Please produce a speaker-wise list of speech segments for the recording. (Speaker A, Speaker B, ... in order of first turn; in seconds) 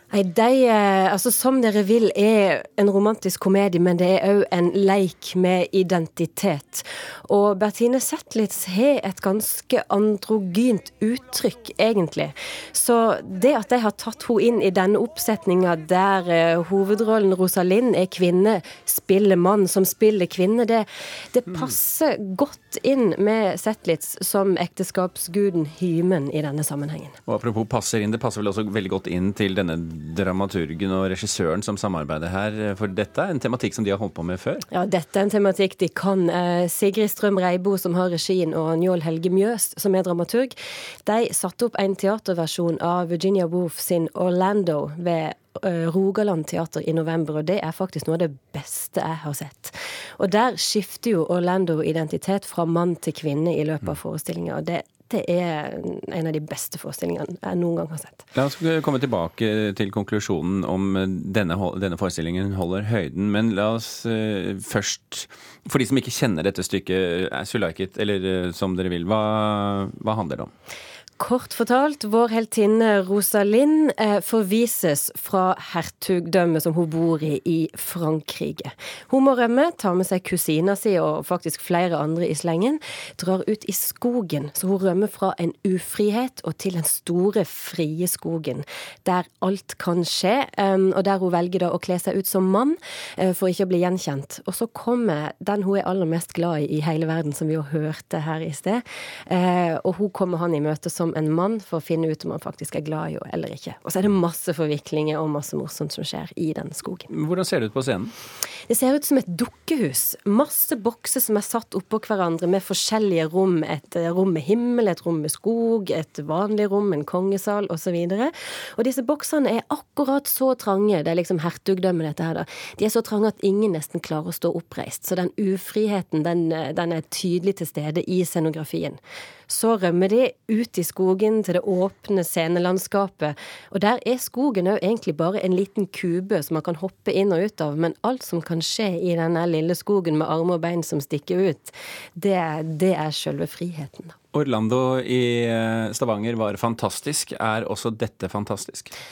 Speaker A: 0.1-27.2, 34.7-58.2, 71.2-107.1, 108.7-144.1
Speaker B: 21.5-21.7, 27.3-34.6, 58.3-70.5, 107.1-108.1, 144.3-148.9